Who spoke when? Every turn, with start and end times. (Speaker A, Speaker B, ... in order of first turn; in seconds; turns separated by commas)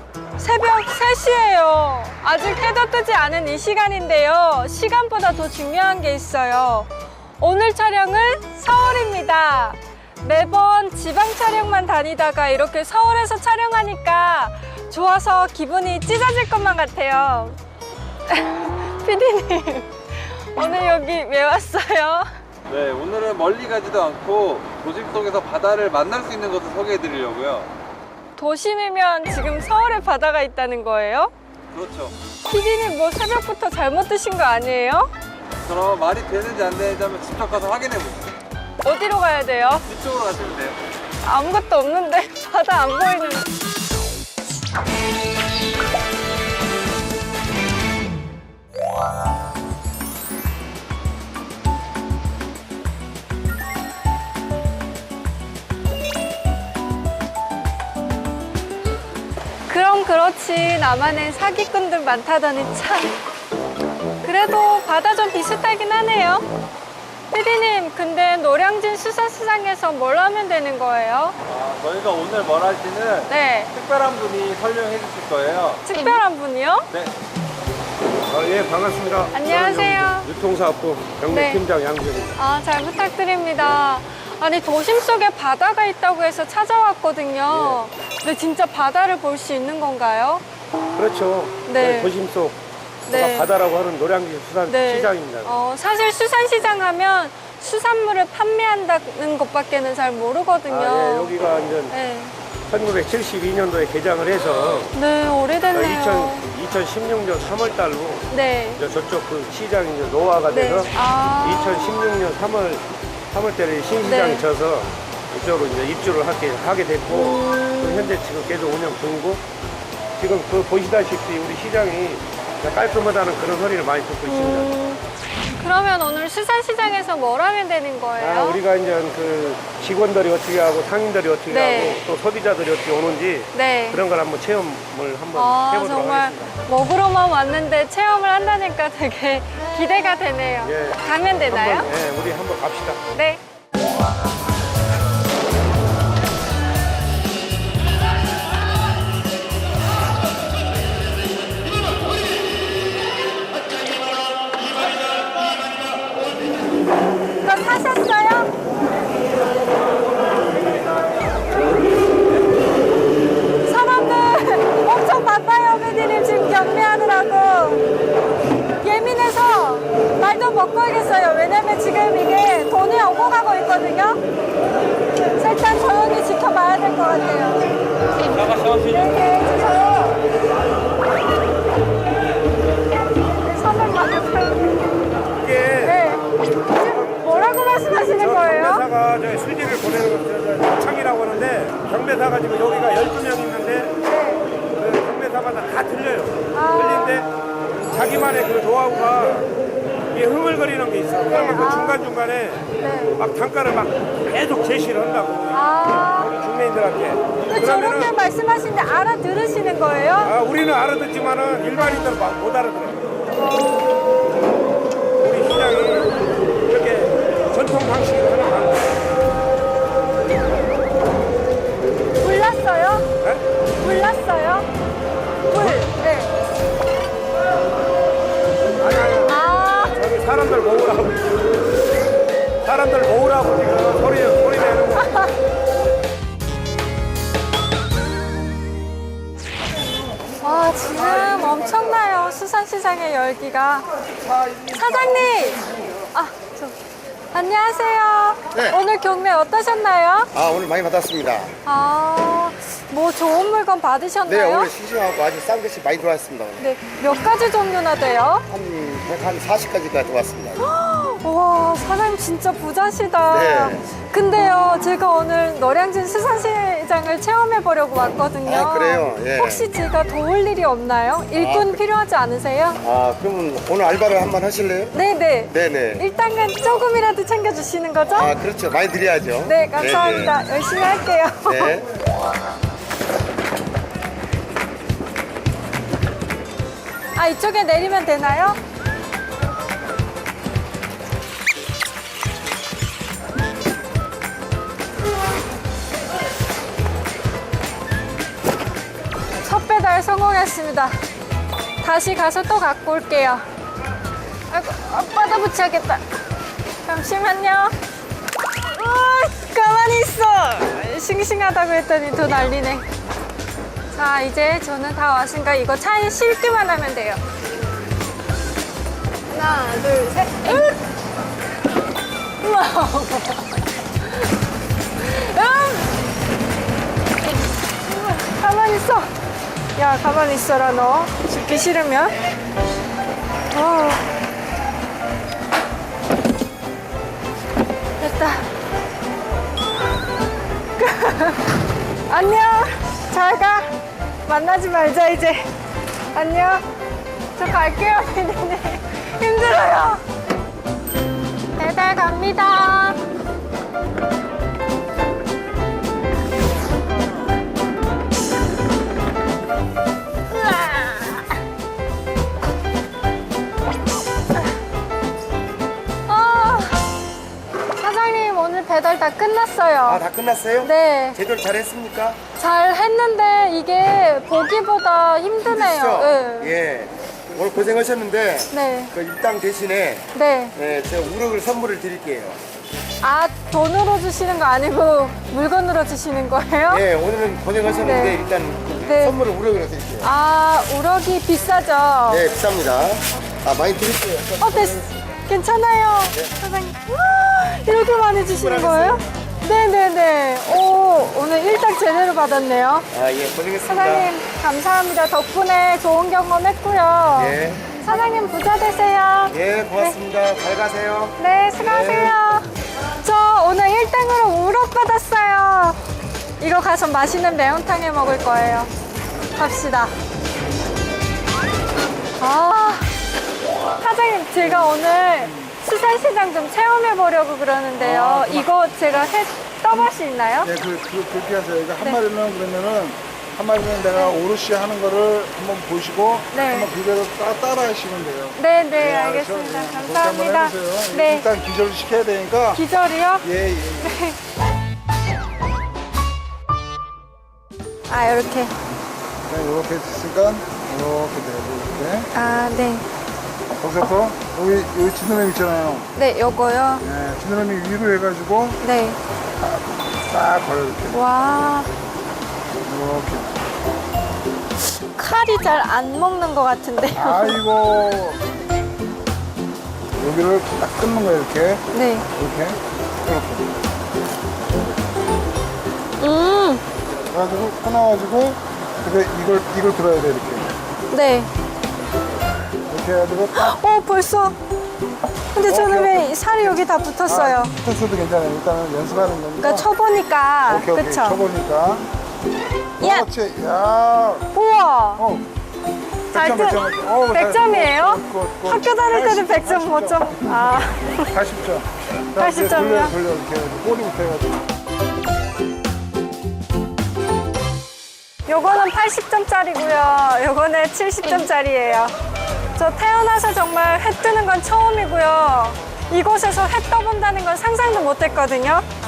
Speaker A: 0.4-17.6, Speaker A: 18.3-22.2, Speaker B: 22.7-27.7, Speaker A: 28.4-31.3, Speaker B: 31.7-32.1, Speaker A: 32.5-35.1, Speaker B: 35.6-38.4, Speaker A: 38.8-39.8, Speaker B: 39.8-40.8, Speaker A: 41.2-43.5, Speaker A: 59.7-63.2, Speaker A: 64.2-66.5, Speaker A: 67.3-71.3, Speaker B: 71.5-76.2, Speaker A: 73.3-73.7, Speaker A: 75.8-76.9, Speaker C: 78.2-82.4, Speaker A: 79.3-80.3, Speaker A: 81.3-81.6, Speaker A: 82.3-90.4, Speaker C: 87.5-87.8, Speaker C: 90.9-95.5, Speaker A: 91.7-92.1, Speaker A: 93.1-93.5, Speaker A: 94.7-101.3, Speaker C: 100.7-101.9, Speaker A: 101.9-102.3, Speaker C: 102.7-104.9, Speaker A: 104.9-106.5, Speaker C: 105.7-119.4, Speaker A: 108.3-108.8, Speaker A: 110.5-111.9, Speaker A: 114.0-114.5, Speaker A: 117.1-118.1, Speaker C: 120.2-124.7, Speaker A: 124.3-125.0, Speaker A: 125.5-128.6, Speaker C: 128.2-136.6, Speaker A: 131.5-132.0, Speaker A: 133.5-134.0, Speaker A: 135.3-141.9, Speaker C: 140.6-143.0, Speaker A: 143.1-143.4, Speaker A: 157.4-158.5, Speaker A: 163.6-167.8, Speaker A: 168.8-174.2, Speaker A: 175.3-177.6, Speaker C: 178.3-179.1, Speaker A: 178.8-180.2, Speaker A: 183.4-184.8, Speaker C: 185.3-186.0, Speaker A: 185.8-188.8, Speaker C: 186.8-187.5, Speaker C: 188.0-194.0, Speaker A: 194.0-194.4, Speaker C: 194.7-197.3, Speaker A: 196.5-197.3, Speaker C: 197.9-199.5, Speaker C: 200.1-208.1, Speaker A: 201.2-202.1, Speaker A: 202.8-203.2, Speaker A: 205.5-206.3, Speaker A: 207.5-210.3, Speaker C: 210.2-213.1, Speaker A: 213.4-213.9, Speaker C: 215.2-218.9, Speaker A: 222.2-223.1, Speaker A: 223.8-224.7, Speaker A: 225.5-226.3, Speaker C: 225.5-225.9, Speaker C: 228.8-229.3, Speaker A: 229.2-230.0, Speaker C: 229.9-231.3, Speaker C: 232.6-235.3, Speaker A: 235.0-235.3, Speaker A: 240.4-243.9, Speaker D: 244.2-245.4, Speaker A: 244.7-246.8, Speaker A: 247.3-250.3, Speaker D: 248.5-248.8, Speaker D: 250.3-251.6, Speaker A: 251.6-254.7, Speaker D: 254.2-256.6, Speaker A: 256.6-258.4, Speaker D: 258.5-260.6, Speaker A: 260.6-272.8, Speaker D: 263.3-263.9, Speaker D: 268.4-269.7, Speaker D: 271.4-271.8, Speaker D: 272.8-274.9, Speaker A: 274.9-278.3, Speaker D: 275.5-276.1, Speaker D: 278.1-280.4, Speaker A: 279.4-281.8, Speaker D: 281.4-281.9, Speaker A: 287.1-288.6, Speaker A: 299.4-300.9, Speaker A: 301.8-303.4, Speaker A: 304.5-306.0, Speaker A: 306.8-307.7, Speaker A: 308.6-312.9, Speaker A: 313.9-317.2, Speaker A: 319.3-320.8, Speaker A: 322.4-324.3, Speaker A: 325.0-325.9, Speaker A: 327.8-329.1, Speaker A: 329.8-332.1, Speaker A: 333.5-334.0, Speaker A: 338.0-338.4, Speaker A: 340.8-341.5, Speaker A: 342.1-343.7, Speaker A: 344.2-345.5, Speaker A: 346.1-346.6, Speaker A: 347.4-350.0, Speaker A: 351.5-353.0, Speaker A: 360.5-361.2, Speaker A: 366.1-366.9, Speaker A: 367.8-370.0, Speaker D: 369.9-372.2, Speaker A: 370.6-371.2, Speaker A: 372.4-376.6, Speaker D: 375.4-382.4, Speaker A: 378.5-378.9, Speaker A: 380.1-380.5, Speaker A: 383.0-386.8, Speaker D: 386.7-390.1, Speaker A: 387.8-388.2, Speaker A: 388.8-389.2, Speaker A: 390.0-392.2, Speaker D: 392.1-395.0, Speaker A: 394.4-402.9, Speaker C: 398.2-399.0, Speaker D: 402.9-404.1, Speaker A: 403.6-409.9, Speaker D: 407.1-407.6, Speaker D: 409.3-412.2, Speaker A: 411.2-412.5, Speaker A: 413.0-415.8, Speaker A: 416.4-418.7, Speaker A: 419.4-419.9, Speaker A: 422.2-422.9, Speaker A: 423.8-430.5, Speaker E: 424.4-425.5, Speaker E: 427.8-429.1, Speaker E: 430.4-442.6, Speaker A: 433.9-434.2, Speaker A: 436.3-436.7, Speaker A: 438.4-441.3, Speaker A: 442.5-443.2, Speaker E: 443.2-444.1, Speaker A: 443.8-444.2, Speaker A: 447.9-448.5, Speaker E: 449.2-452.1, Speaker A: 452.1-452.8, Speaker E: 453.6-455.9, Speaker A: 455.9-456.8, Speaker E: 456.8-458.6, Speaker A: 458.6-459.0, Speaker E: 459.4-461.0, Speaker A: 460.9-461.7, Speaker E: 462.6-463.4, Speaker A: 464.6-467.4, Speaker E: 466.9-468.2, Speaker E: 470.0-473.5, Speaker A: 471.7-472.1, Speaker A: 476.0-476.6, Speaker E: 477.1-480.5, Speaker A: 480.9-481.3, Speaker E: 482.7-483.6, Speaker A: 483.3-484.4, Speaker A: 485.3-487.5, Speaker E: 485.4-489.7, Speaker A: 489.4-491.2, Speaker E: 490.4-491.9, Speaker A: 492.8-493.1, Speaker E: 492.8-494.3, Speaker A: 494.3-495.0, Speaker E: 495.0-495.3, Speaker E: 496.1-504.4, Speaker A: 496.1-501.1, Speaker A: 502.2-502.9, Speaker A: 508.3-511.9, Speaker A: 512.5-518.6